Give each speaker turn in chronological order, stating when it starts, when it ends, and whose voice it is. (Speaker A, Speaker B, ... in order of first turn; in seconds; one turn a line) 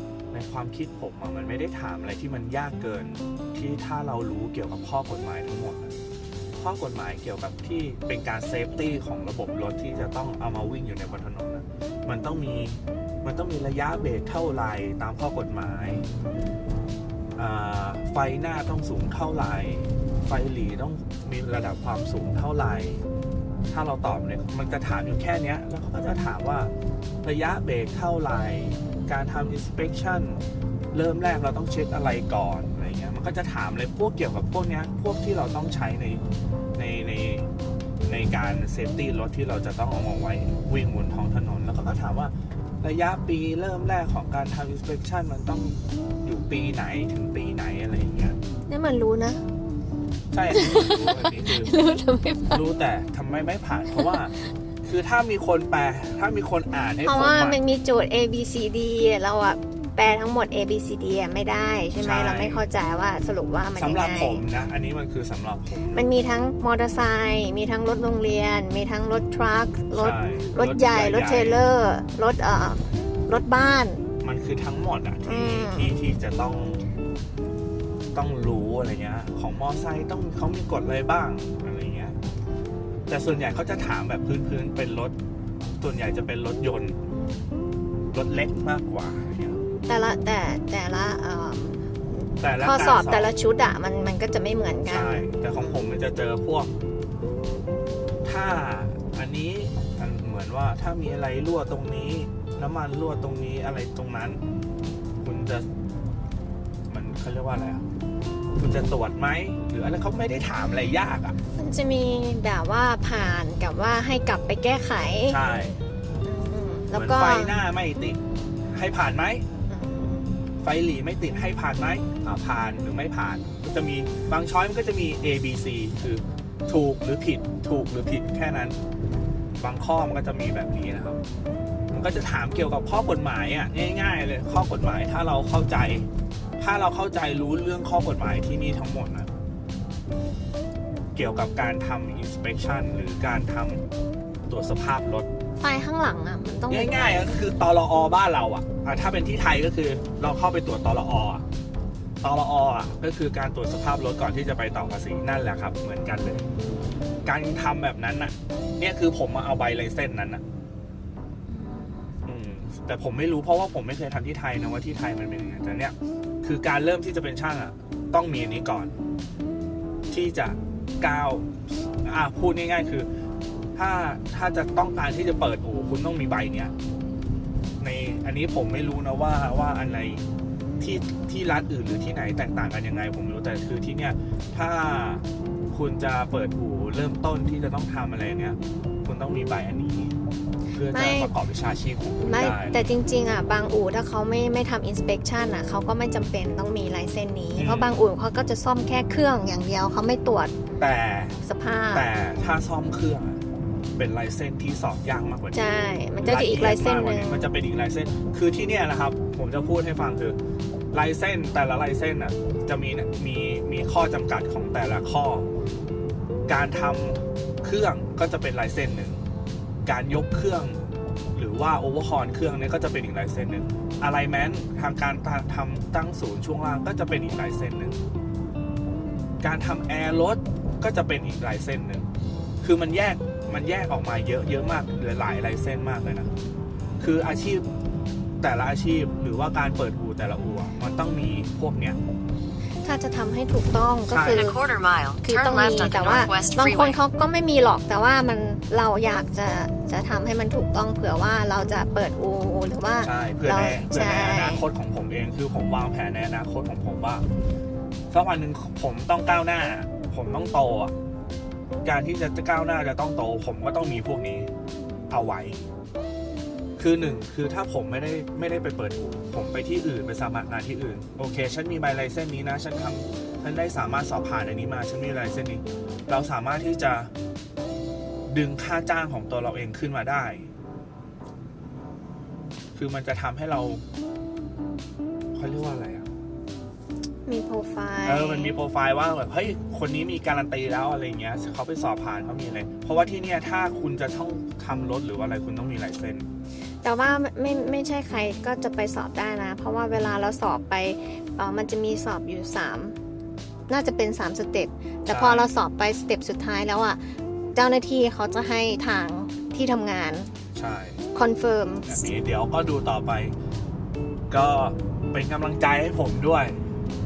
Speaker A: 0.3-5.9
Speaker A: 6.6-16.1
Speaker A: 17.4-23.0
Speaker A: 23.7-36.2
Speaker A: 36.8-37.5
Speaker A: 38.0-48.4
Speaker B: 48.7-49.4
Speaker A: 50.3-51.7
Speaker B: 50.5-52.6
Speaker A: 52.5-57.6
Speaker B: 57.0-64.4
Speaker A: 62.0-62.6
Speaker A: 63.8-66.1
Speaker B: 65.9-74.0
Speaker A: 69.9-71.6
Speaker A: 74.2-76.8
Speaker B: 75.2-75.9
Speaker A: 78.1-82.2
Speaker A: 83.1-85.1
Speaker A: 85.8-87.0
Speaker A: 88.1-89.6
Speaker B: 89.8-95.8
Speaker A: 92.4-93.3
Speaker A: 94.9-96.7
Speaker A: 98.2-104.4
Speaker A: 105.2-105.7
Speaker A: 106.9-107.9
Speaker A: 108.6-111.3
Speaker B: 111.5-115.4
Speaker A: 115.3-115.8
Speaker B: 116.2-117.6
Speaker A: 116.9-119.4
Speaker B: 119.7-120.3
Speaker A: 120.6-128.8
Speaker A: 129.6-131.2
Speaker A: 131.9-136.1
Speaker A: 136.6-139.3
Speaker A: 141.1-143.8
Speaker A: 144.5-145.3
Speaker B: 145.6-147.2
Speaker A: 146.7-151.4
Speaker A: 152.2-156.5
Speaker A: 157.2-160.4
Speaker B: 161.5-162.1
Speaker A: 162.2-168.9
Speaker A: 170.1-173.1
Speaker A: 173.8-176.7
Speaker A: 177.8-180.3
Speaker A: 180.8-190.1
Speaker A: 190.7-192.8
Speaker B: 190.9-191.3
Speaker B: 192.2-200.5
Speaker A: 197.6-198.0
Speaker A: 200.8-201.4
Speaker B: 201.4-202.1
Speaker A: 201.9-203.4
Speaker A: 204.0-210.4
Speaker B: 205.5-207.4
Speaker A: 210.9-215.5
Speaker A: 216.4-219.2
Speaker A: 219.8-228.0
Speaker A: 229.4-232.1
Speaker A: 232.6-236.3
Speaker A: 237.0-237.7
Speaker A: 238.4-242.0
Speaker B: 242.8-244.6
Speaker A: 244.1-244.5
Speaker C: 244.3-247.0
Speaker B: 245.2-254.6
Speaker A: 253.0-257.2
Speaker A: 258.1-260.9
Speaker A: 261.8-264.5
Speaker A: 265.1-265.6
Speaker A: 266.8-277.1
Speaker A: 278.3-280.5
Speaker A: 282.7-283.8
Speaker A: 285.3-286.1
Speaker B: 287.2-288.6
Speaker A: 288.0-296.3
Speaker B: 296.8-302.9
Speaker B: 303.7-310.3
Speaker A: 305.1-305.5
Speaker A: 310.5-311.0
Speaker B: 311.1-312.1
Speaker A: 311.9-313.4
Speaker A: 314.3-316.6